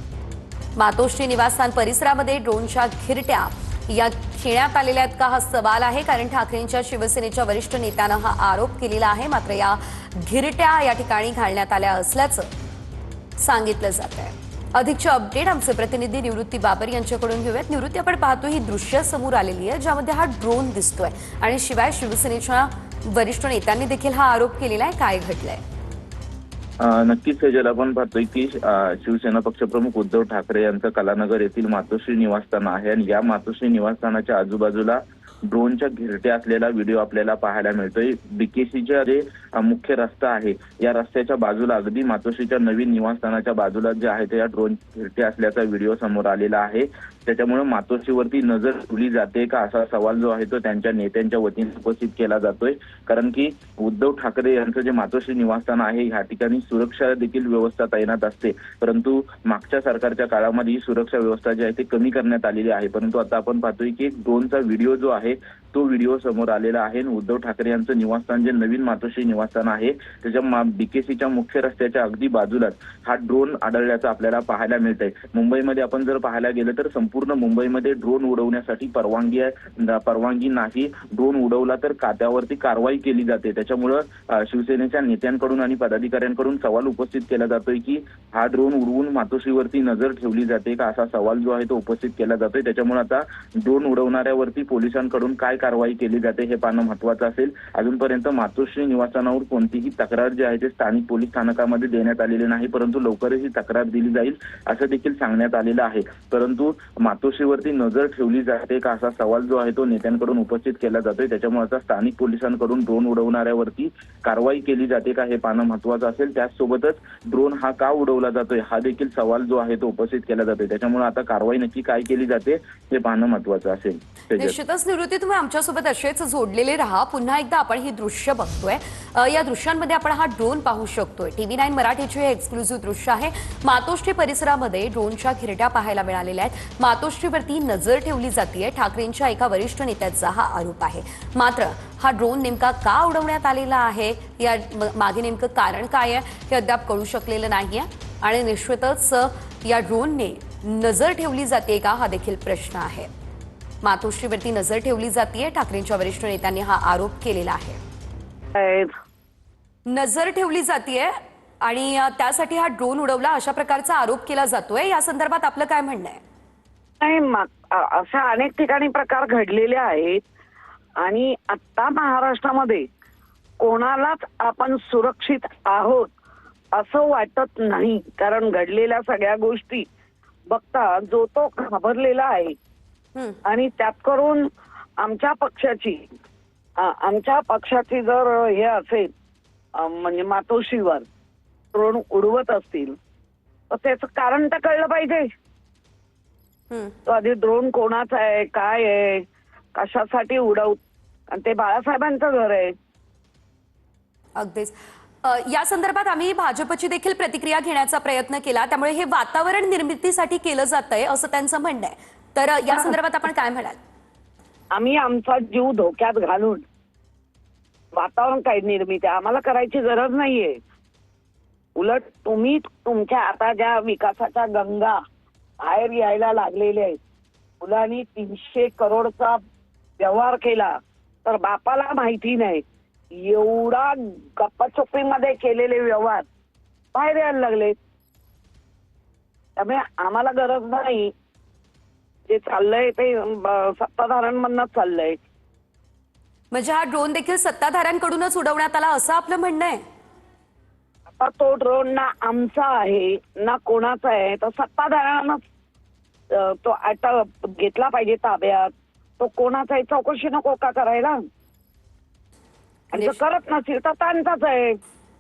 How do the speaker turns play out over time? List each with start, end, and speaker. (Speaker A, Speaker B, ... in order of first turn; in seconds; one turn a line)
Speaker A: 0.8-12.5
Speaker A: 13.4-25.6
Speaker B: 26.8-124.6
Speaker A: 124.4-153.1
Speaker A: 153.8-157.8
Speaker C: 158.6-158.9
Speaker A: 159.9-166.2
Speaker C: 167.0-170.2
Speaker C: 171.0-172.9
Speaker C: 173.6-176.1
Speaker C: 176.8-179.9
Speaker C: 180.5-182.6
Speaker C: 183.4-184.5
Speaker C: 185.0-186.1
Speaker C: 186.8-189.1
Speaker C: 189.8-191.1
Speaker C: 191.7-193.0
Speaker C: 193.7-195.3
Speaker C: 197.1-200.8
Speaker C: 201.3-202.7
Speaker A: 204.4-213.8
Speaker C: 214.7-216.6
Speaker C: 217.9-220.6
Speaker C: 221.8-225.0
Speaker C: 225.6-227.0
Speaker C: 227.6-229.4
Speaker C: 230.0-230.7
Speaker C: 231.2-232.6
Speaker C: 233.2-236.2
Speaker C: 236.9-237.8
Speaker C: 239.6-241.1
Speaker C: 242.3-245.2
Speaker A: 246.5-249.8
Speaker C: 251.2-255.4
Speaker C: 256.3-261.2
Speaker C: 262.9-264.8
Speaker A: 262.9-263.2